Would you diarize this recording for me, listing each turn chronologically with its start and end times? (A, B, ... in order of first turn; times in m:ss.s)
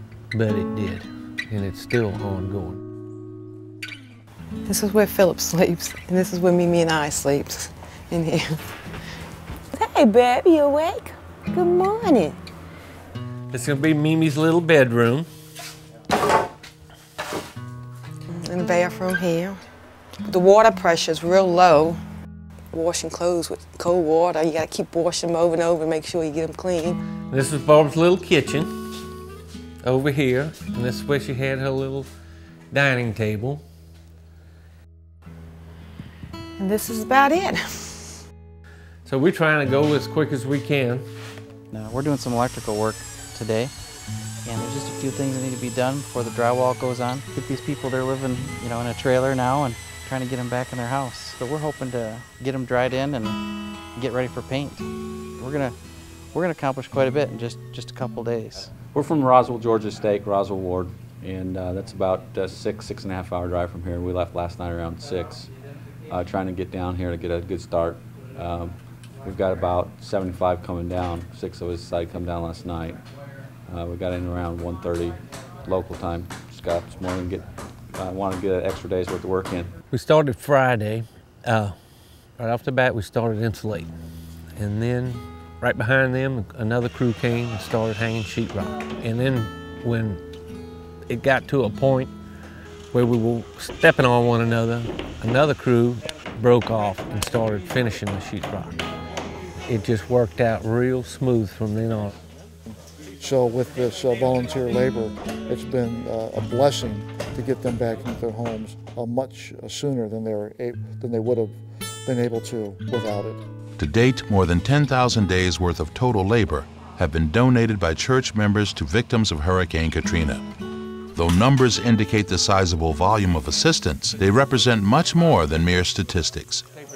0:00.3-0:02.8 A
0:04.6-0:08.6 B
0:09.7-0:12.4 B
0:13.5-0:15.3 A
0:18.3-0:19.6 B
0:20.2-0:22.0 B
0:22.7-0:27.0 B
0:27.3-0:28.7 A
0:29.8-0:32.1 A
0:32.7-0:33.6 A
0:36.6-0:38.2 B
0:39.0-0:41.1 A
0:41.7-0:43.7 C
0:44.4-0:53.4 C
0:53.9-0:54.8 C
0:55.4-0:55.7 C
0:56.3-0:58.7 C
0:58.9-1:05.5 D
1:06.1-1:13.0 D
1:13.7-1:19.7 D
1:19.9-1:23.9 A
1:24.5-1:30.2 A
1:31.1-1:32.1 A
1:32.9-1:38.9 A
1:39.6-1:42.1 A
1:43.2-1:53.4 E
1:53.8-2:00.4 F
2:01.1-2:06.6 F